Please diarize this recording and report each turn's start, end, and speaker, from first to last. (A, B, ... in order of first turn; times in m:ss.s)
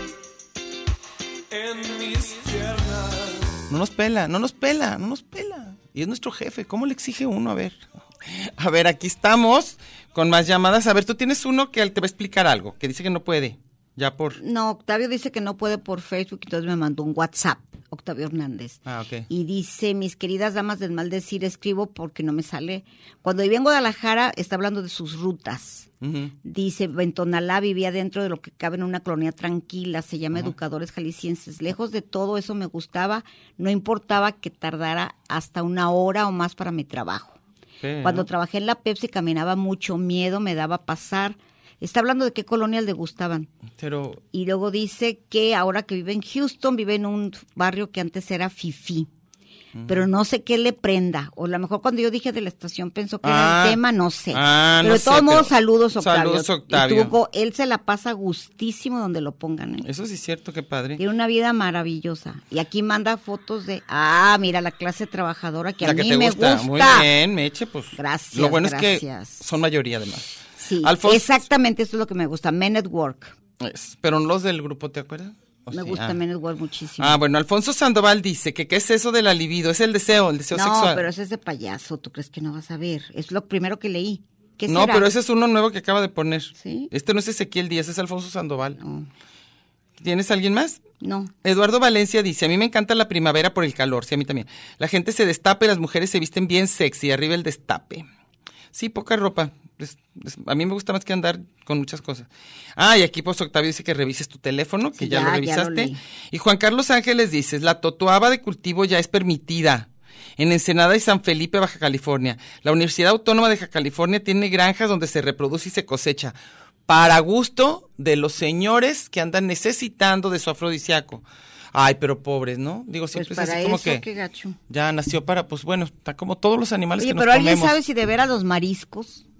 0:01.5-0:03.6 A
0:03.7-0:14.4 B
0:14.4-0:25.9 C
0:18.8-0:19.3 B
0:26.0-0:26.3 B
0:26.4-0:37.4 C
0:37.8-0:38.3 B
0:38.0-0:43.5 C
0:43.8-0:44.2 B
0:44.3-0:49.1 C
0:49.7-0:50.0 B
0:49.9-0:59.8 C
0:53.2-0:53.8 B
0:54.3-0:57.1 B
0:59.8-1:01.0 B
1:01.0-1:07.1 C
1:05.8-1:11.3 B
1:07.9-1:09.4 C
1:10.6-1:13.3 C
1:13.6-1:16.2 B
1:15.7-1:17.2 C
1:17.0-1:21.1 B
1:20.5-1:25.1 C
1:24.7-1:28.8 B
1:26.6-1:26.9 C
1:28.8-1:29.1 C
1:30.0-1:30.8 B
1:31.0-1:31.3 C
1:31.4-1:38.0 B
1:38.7-1:56.4 B
1:45.0-1:46.0 C
1:56.9-2:04.0 B
2:03.1-2:04.6 C
2:04.7-2:07.8 B
2:07.0-2:09.2 C